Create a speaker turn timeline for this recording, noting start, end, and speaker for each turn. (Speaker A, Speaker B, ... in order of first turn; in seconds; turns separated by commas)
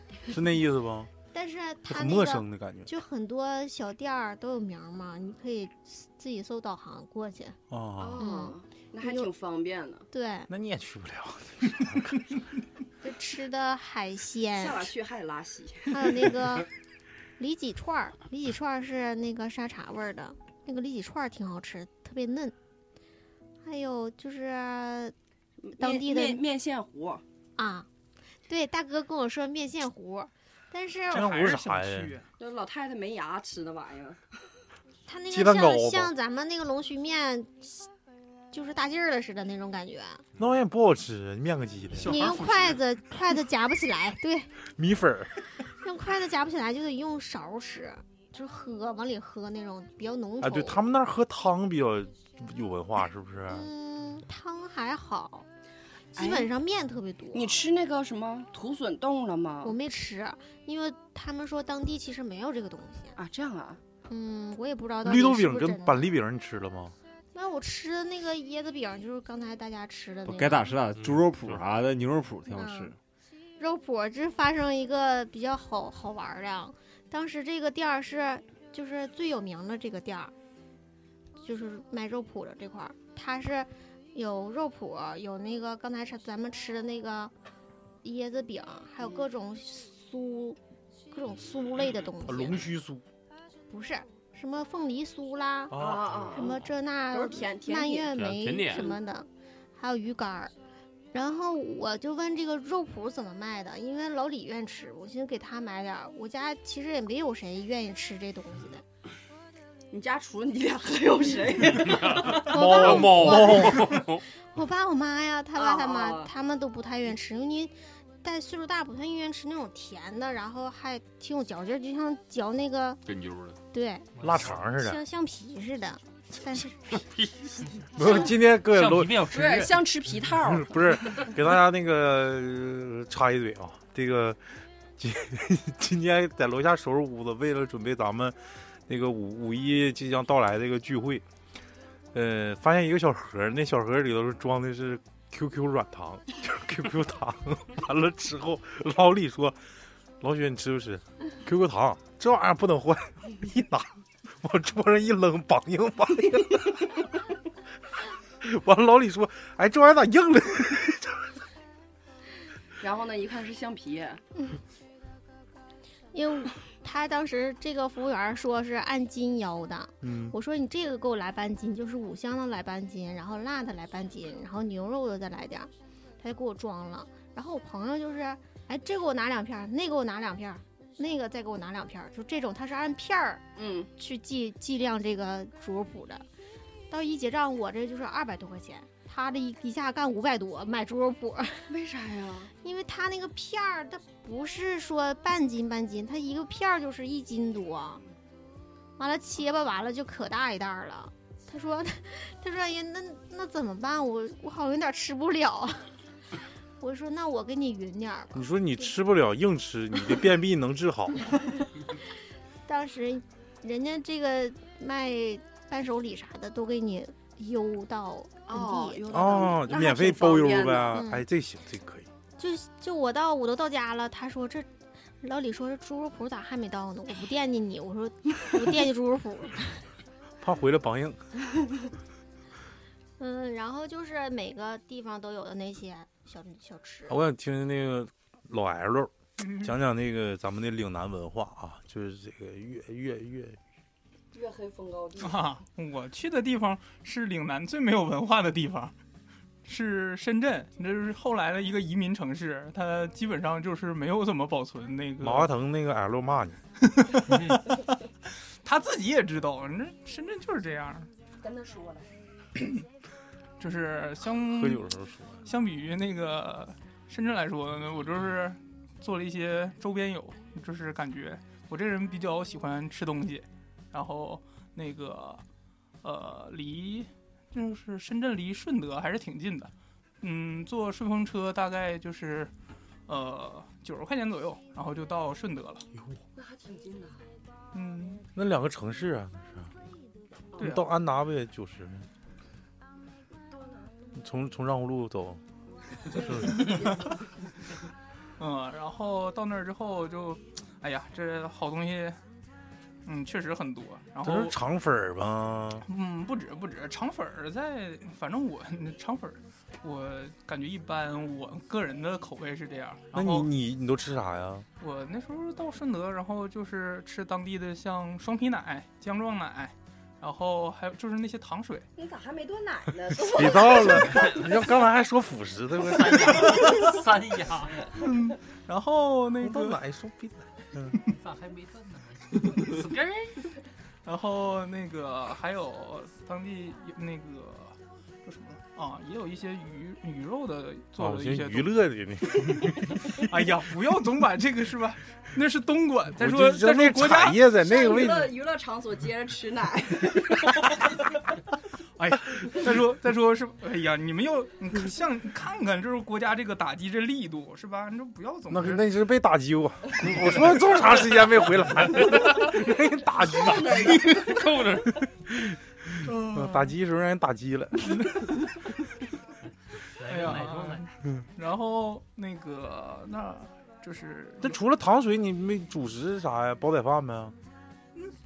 Speaker A: 0.3-1.1, Speaker B: 1.3-7.6, Speaker A: 1.9-2.9, Speaker A: 7.7-8.2, Speaker C: 8.0-10.1, Speaker B: 8.2-9.3, Speaker B: 10.1-10.5, Speaker A: 10.5-12.2, Speaker B: 13.0-14.9, Speaker C: 14.6-16.3, Speaker B: 15.9-16.7, Speaker B: 17.4-22.6, Speaker B: 23.6-25.1, Speaker C: 25.6-27.2, Speaker B: 25.8-26.4, Speaker B: 27.6-27.9, Speaker B: 28.5-31.4, Speaker D: 31.1-32.3, Speaker A: 31.1-32.2, Speaker C: 32.4-34.4, Speaker B: 35.1-37.9, Speaker A: 35.3-36.1, Speaker B: 38.5-40.2, Speaker A: 40.4-42.2, Speaker D: 42.0-42.8, Speaker B: 42.0-44.5, Speaker A: 44.7-45.3, Speaker B: 45.8-50.8, Speaker A: 50.4-53.7, Speaker B: 53.5-55.5, Speaker B: 56.1-57.6, Speaker C: 56.1-56.5, Speaker C: 57.3-59.8, Speaker B: 59.6-63.1, Speaker C: 63.1-63.8, Speaker B: 64.1-66.1, Speaker A: 65.0-67.0, Speaker B: 67.3-70.6, Speaker E: 70.2-73.0, Speaker F: 71.0-71.5, Speaker B: 72.5-73.0, Speaker B: 73.6-80.3, Speaker B: 81.4-87.3, Speaker B: 88.0-90.6, Speaker B: 91.1-92.7, Speaker A: 92.3-93.0, Speaker B: 93.7-95.8, Speaker A: 95.7-96.4, Speaker C: 95.7-98.1, Speaker B: 96.3-100.5, Speaker F: 98.1-99.0, Speaker B: 101.1-108.8, Speaker C: 109.9-112.5, Speaker F: 112.0-114.2, Speaker B: 112.3-123.0, Speaker A: 112.5-113.7, Speaker C: 115.5-116.3, Speaker F: 123.0-123.6, Speaker B: 123.7-124.1, Speaker G: 124.2-124.6, Speaker A: 124.2-125.0, Speaker B: 124.7-127.0, Speaker A: 128.0-129.4, Speaker G: 128.0-129.9, Speaker C: 129.3-131.2, Speaker A: 130.4-141.2, Speaker A: 142.1-149.6, Speaker A: 150.2-157.0, Speaker A: 158.4-161.3, Speaker C: 162.8-164.2, Speaker B: 166.1-183.4, Speaker A: 170.0-170.3, Speaker C: 183.6-183.9, Speaker B: 184.0-186.2, Speaker B: 186.9-191.7, Speaker C: 191.7-192.5, Speaker B: 192.6-198.0, Speaker B: 199.0-205.9, Speaker B: 206.8-208.9, Speaker A: 208.3-211.3, Speaker B: 212.7-219.0, Speaker C: 218.5-221.0, Speaker A: 219.1-222.1, Speaker B: 220.9-221.2, Speaker B: 222.4-224.7, Speaker B: 225.2-229.8, Speaker A: 230.4-231.2, Speaker B: 233.2-237.2, Speaker A: 237.1-243.6, Speaker D: 239.4-239.7, Speaker C: 244.3-245.5, Speaker D: 245.2-248.9, Speaker D: 249.6-255.5, Speaker A: 255.2-256.6, Speaker D: 256.8-261.1, Speaker G: 257.3-257.6, Speaker C: 261.4-262.1, Speaker D: 263.6-264.9, Speaker A: 264.4-265.4, Speaker D: 265.4-275.4, Speaker D: 276.0-282.5, Speaker D: 283.1-285.9, Speaker C: 286.4-287.3, Speaker D: 287.7-288.2, Speaker A: 288.3-289.7, Speaker A: 290.6-292.1, Speaker D: 290.6-290.9, Speaker C: 293.5-294.1, Speaker A: 294.1-295.4, Speaker C: 295.8-297.1, Speaker A: 296.1-296.7, Speaker D: 296.4-297.2, Speaker D: 298.4-302.2, Speaker D: 303.1-304.6, Speaker A: 304.2-305.9, Speaker D: 305.8-313.5, Speaker A: 313.1-314.6, Speaker D: 314.8-321.9, Speaker C: 322.0-324.3, Speaker A: 323.3-326.6, Speaker G: 325.9-327.9, Speaker D: 327.9-329.8, Speaker A: 329.4-331.0, Speaker G: 331.1-333.4, Speaker D: 334.1-341.7, Speaker A: 341.0-343.2, Speaker D: 343.1-347.4, Speaker A: 346.1-348.4, Speaker C: 347.5-350.7, Speaker D: 352.0-358.8, Speaker A: 358.5-364.2, Speaker C: 363.3-364.6, Speaker F: 364.3-364.9, Speaker A: 365.9-367.8, Speaker D: 366.0-366.7, Speaker D: 367.8-368.4, Speaker G: 369.9-370.9, Speaker D: 370.0-374.6, Speaker A: 374.4-377.3